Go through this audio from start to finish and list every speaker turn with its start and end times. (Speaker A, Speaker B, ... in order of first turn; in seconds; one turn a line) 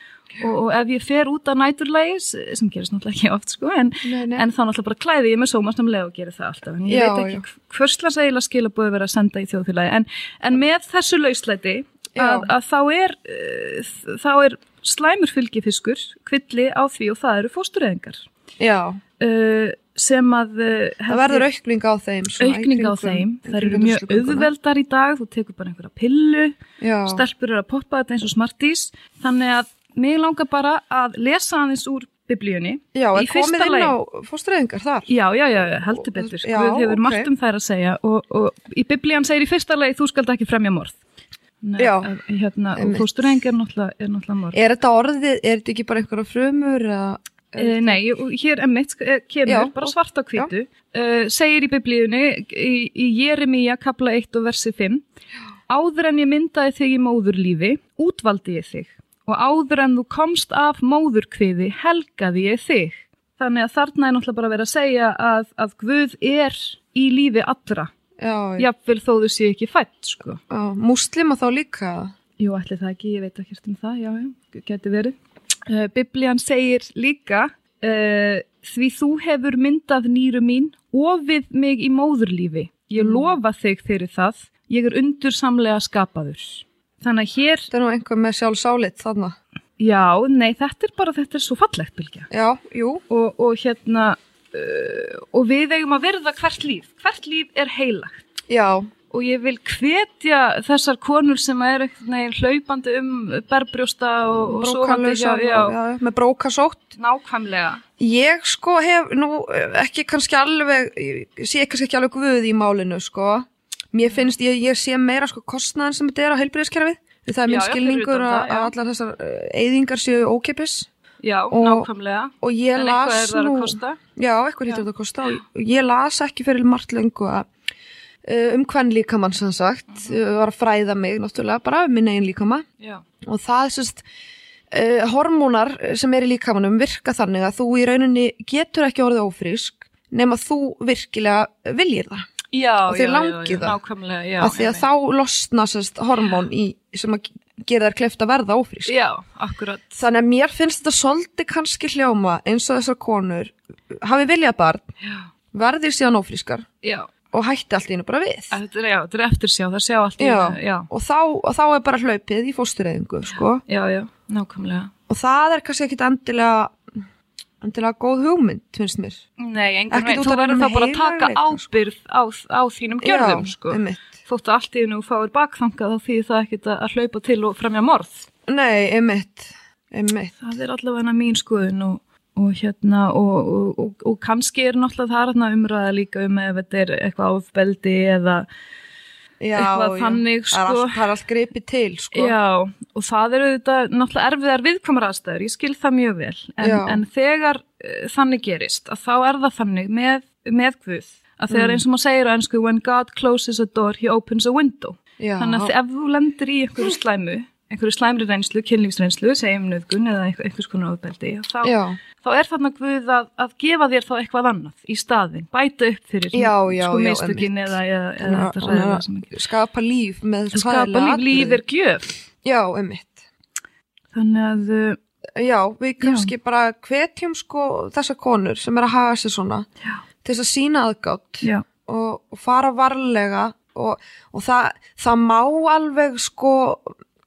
Speaker A: 0.4-18.3
Speaker B: 4.0-4.5
Speaker B: 6.9-7.4
Speaker B: 12.1-12.5
Speaker B: 18.6-19.0
Speaker A: 19.2-21.5
Speaker B: 21.1-24.5
Speaker A: 22.4-33.9
Speaker B: 26.8-27.2
Speaker B: 32.9-35.1
Speaker A: 35.1-41.0
Speaker B: 35.9-37.3
Speaker A: 41.6-44.6
Speaker B: 41.8-42.1
Speaker B: 42.7-43.1
Speaker B: 44.5-48.0
Speaker A: 47.6-55.0
Speaker B: 49.5-50.5
Speaker A: 55.7-67.9
Speaker B: 68.2-68.7
Speaker A: 68.6-70.4
Speaker B: 70.5-72.1
Speaker A: 72.4-87.7
Speaker B: 83.0-83.3
Speaker B: 87.7-89.3
Speaker A: 89.8-92.3
Speaker B: 92.3-93.0
Speaker A: 93.1-98.2
Speaker B: 98.5-98.9
Speaker A: 99.1-105.8
Speaker B: 104.5-106.9
Speaker A: 107.0-107.8
Speaker B: 108.0-120.9
Speaker A: 117.5-118.7
Speaker A: 121.2-124.0
Speaker B: 121.5-121.9
Speaker B: 122.4-127.5
Speaker B: 128.2-132.6
Speaker B: 133.2-134.0
Speaker B: 134.7-142.3
Speaker A: 142.5-144.8
Speaker B: 142.9-143.8
Speaker B: 144.4-148.9
Speaker A: 148.8-150.0
Speaker B: 150.0-154.9
Speaker B: 155.5-156.7
Speaker A: 156.8-157.1
Speaker B: 157.3-158.5
Speaker A: 158.5-160.9
Speaker B: 160.2-163.6
Speaker A: 163.7-164.9
Speaker B: 165.1-166.8
Speaker B: 167.6-169.2
Speaker A: 169.4-178.3
Speaker B: 169.9-171.7
Speaker B: 173.0-174.1
Speaker B: 178.5-180.3
Speaker A: 180.4-188.4
Speaker B: 189.4-192.3
Speaker A: 189.5-191.0
Speaker A: 192.1-219.3
Speaker B: 196.6-197.0
Speaker B: 201.5-201.8
Speaker B: 205.2-205.7
Speaker B: 211.6-212.0
Speaker B: 216.3-217.5
Speaker B: 218.2-221.6
Speaker A: 220.5-222.1
Speaker B: 222.4-223.2
Speaker A: 224.1-225.0
Speaker B: 225.3-229.7
Speaker A: 226.0-226.3
Speaker B: 230.2-237.0